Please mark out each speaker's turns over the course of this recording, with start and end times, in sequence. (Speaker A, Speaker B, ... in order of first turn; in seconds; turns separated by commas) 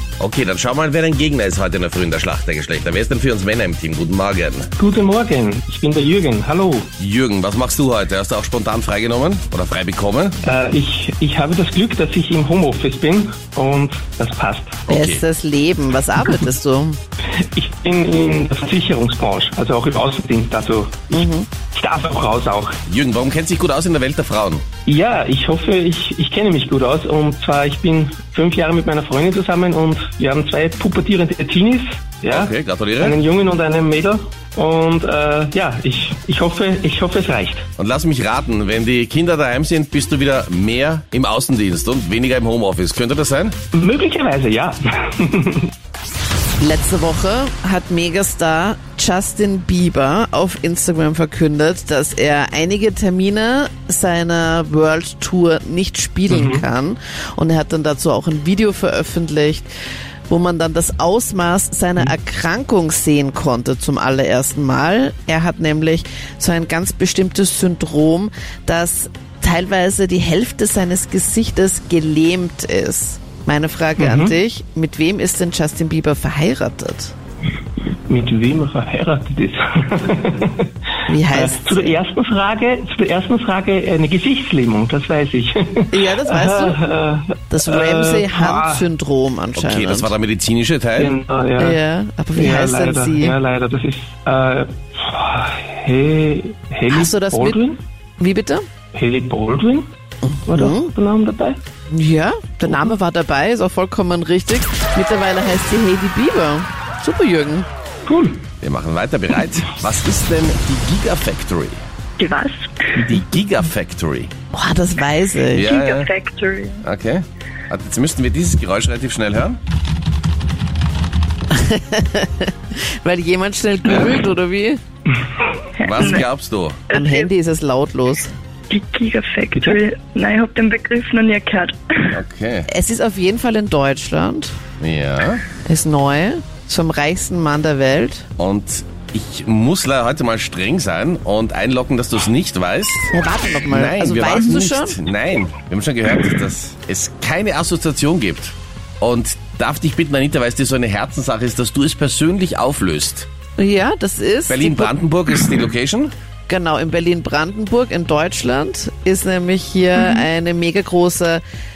Speaker A: 0.2-4.7, Speaker B: 4.8-6.9, Speaker A: 7.0-10.4, Speaker B: 10.4-14.8, Speaker A: 14.9-15.2, Speaker C: 14.9-17.0, Speaker B: 17.6-22.8, Speaker C: 21.1-21.5, Speaker A: 22.9-24.6, Speaker B: 24.9-37.7, Speaker A: 32.3-33.2, Speaker A: 37.8-43.6, Speaker B: 43.7-45.7, Speaker C: 46.6-59.7, Speaker B: 56.3-56.6, Speaker C: 60.3-77.1, Speaker B: 74.0-74.3, Speaker B: 78.1-80.7, Speaker C: 81.1-82.0, Speaker B: 81.3-88.9, Speaker C: 85.9-86.8, Speaker C: 87.5-90.1, Speaker A: 89.6-91.2, Speaker B: 91.0-91.8, Speaker C: 91.6-93.4, Speaker B: 92.4-97.8, Speaker C: 96.9-97.6, Speaker C: 98.2-98.6, Speaker B: 98.9-99.9, Speaker C: 100.2-100.9, Speaker B: 100.5-101.6, Speaker C: 101.9-107.7, Speaker B: 108.1-108.5, Speaker A: 108.6-111.8, Speaker D: 112.2-112.9, Speaker A: 112.9-114.3, Speaker C: 114.5-115.7, Speaker A: 115.5-116.1, Speaker D: 115.6-116.8, Speaker A: 116.8-119.6, Speaker C: 121.5-124.8, Speaker D: 125.8-126.3, Speaker A: 125.8-126.8, Speaker D: 126.9-127.3, Speaker C: 126.9-128.3, Speaker D: 128.7-132.2, Speaker A: 132.1-132.7, Speaker C: 132.7-134.5, Speaker A: 134.8-135.4, Speaker C: 135.6-138.3, Speaker A: 138.4-143.1, Speaker C: 143.1-145.0, Speaker A: 143.7-153.3, Speaker C: 153.6-155.0, Speaker A: 154.5-156.1, Speaker C: 156.5-161.4